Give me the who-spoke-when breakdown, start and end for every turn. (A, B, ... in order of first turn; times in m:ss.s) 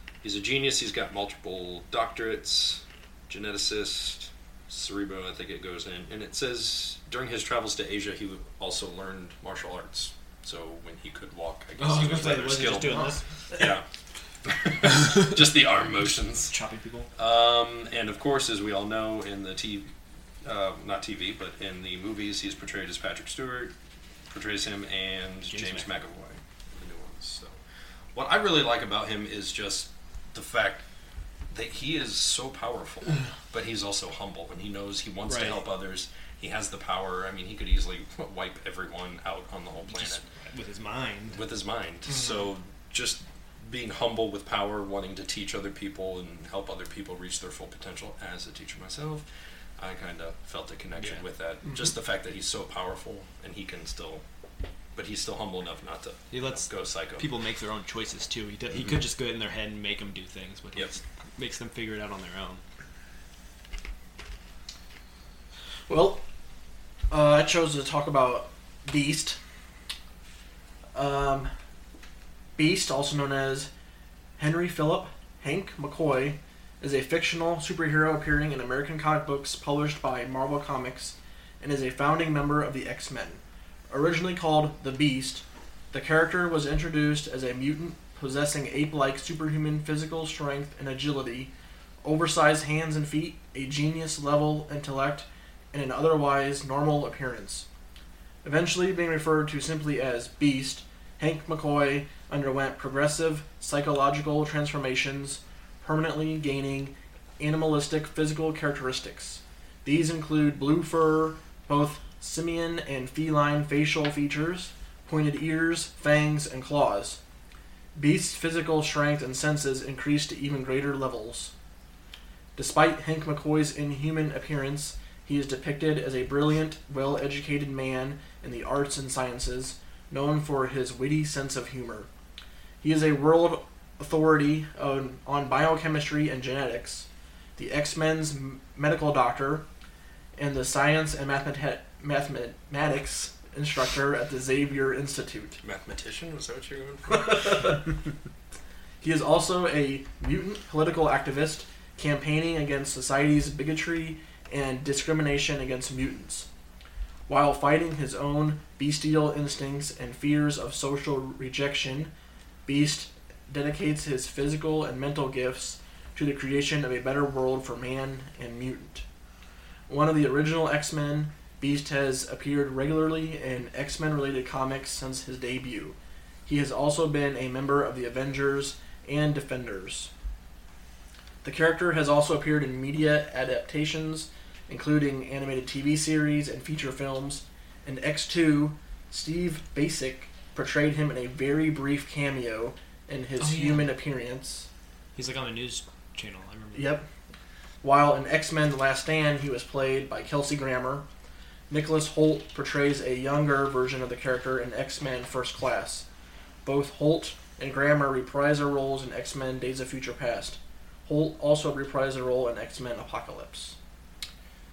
0:00.2-0:13.8 A
0:11.8-0:13.2 B
0:12.9-0:13.7 C
0:14.4-0:16.5 A
0:14.9-0:15.3 B
0:16.5-0:17.1 B
0:17.2-0:19.9 A
0:20.4-0:23.8 A
0:24.3-0:27.6 A
0:25.5-0:25.9 B
0:28.1-0:30.9 A
0:31.5-0:40.2 A
0:35.3-0:35.6 B
0:39.9-0:41.4 B
0:41.3-0:49.3 A
0:42.1-0:42.5 C
0:49.8-0:54.2 A
0:51.0-0:51.2 B
0:55.0-0:57.3 A
0:56.3-1:02.6 B
1:05.9-1:06.2 C
1:07.1-1:09.4 C
1:10.9-1:11.5 C
1:12.6-1:13.7 C
1:14.4-1:31.5 C
1:32.0-1:37.7 C
1:38.4-1:57.2 C
1:58.0-2:01.5 C
2:02.6-2:12.1 C
2:12.8-2:19.7 C
2:20.4-2:25.6 C
2:25.6-2:27.7 A
2:27.1-2:27.9 C
2:29.0-2:36.5 C
2:37.3-2:42.1 C
2:42.7-2:49.0 C
2:49.9-3:00.1 C
3:01.4-3:14.7 C
3:13.4-3:13.9 B
3:15.2-3:17.0 B
3:16.7-3:17.1 C
3:17.8-3:21.1 C
3:21.7-3:26.1 C
3:26.6-3:33.8 C